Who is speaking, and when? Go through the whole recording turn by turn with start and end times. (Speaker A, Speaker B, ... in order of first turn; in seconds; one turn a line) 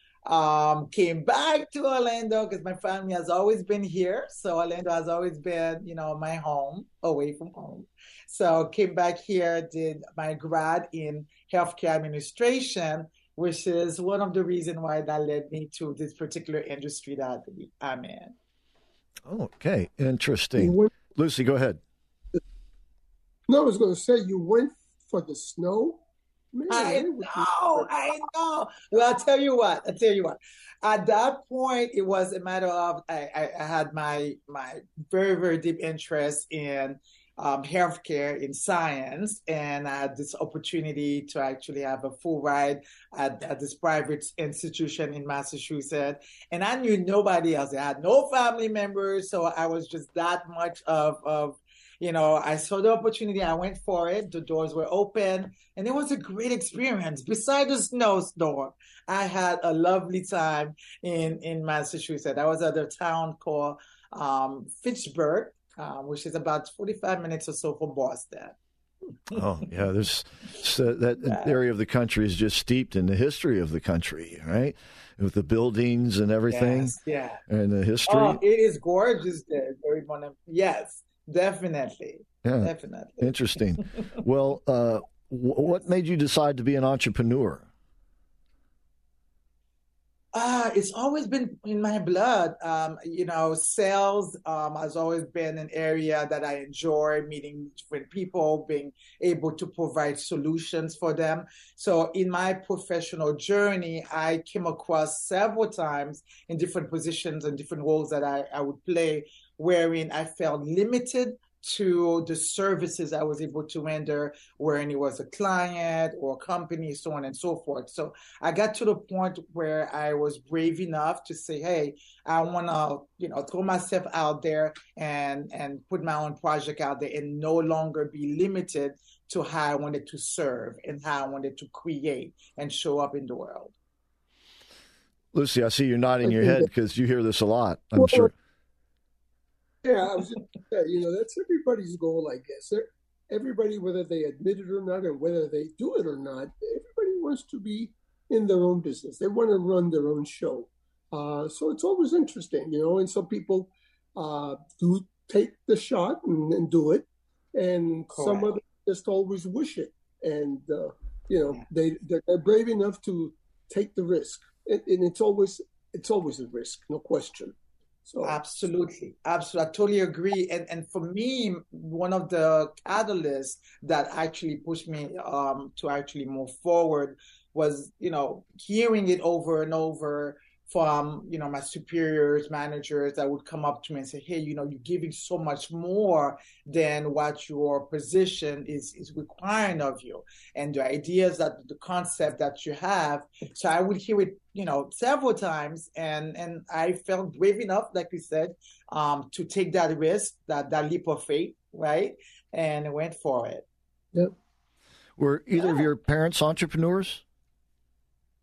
Speaker A: 0.2-18.4
Speaker B: 19.2-21.8
Speaker C: 20.6-20.9
Speaker C: 23.5-26.0
Speaker C: 26.5-27.9
Speaker A: 26.7-68.6
Speaker B: 69.3-76.9
Speaker A: 71.2-71.5
Speaker A: 76.5-77.4
Speaker B: 77.5-78.4
Speaker A: 78.1-83.3
Speaker B: 82.4-87.7
Speaker A: 90.3-133.7
Speaker B: 135.3-138.3
Speaker C: 136.2-136.7
Speaker C: 138.0-138.3
Speaker C: 139.8-167.6
Speaker A: 158.1-158.6
Speaker C: 168.1-168.4
Speaker A: 168.2-203.7
Speaker B: 205.2-207.2
Speaker A: 205.6-205.8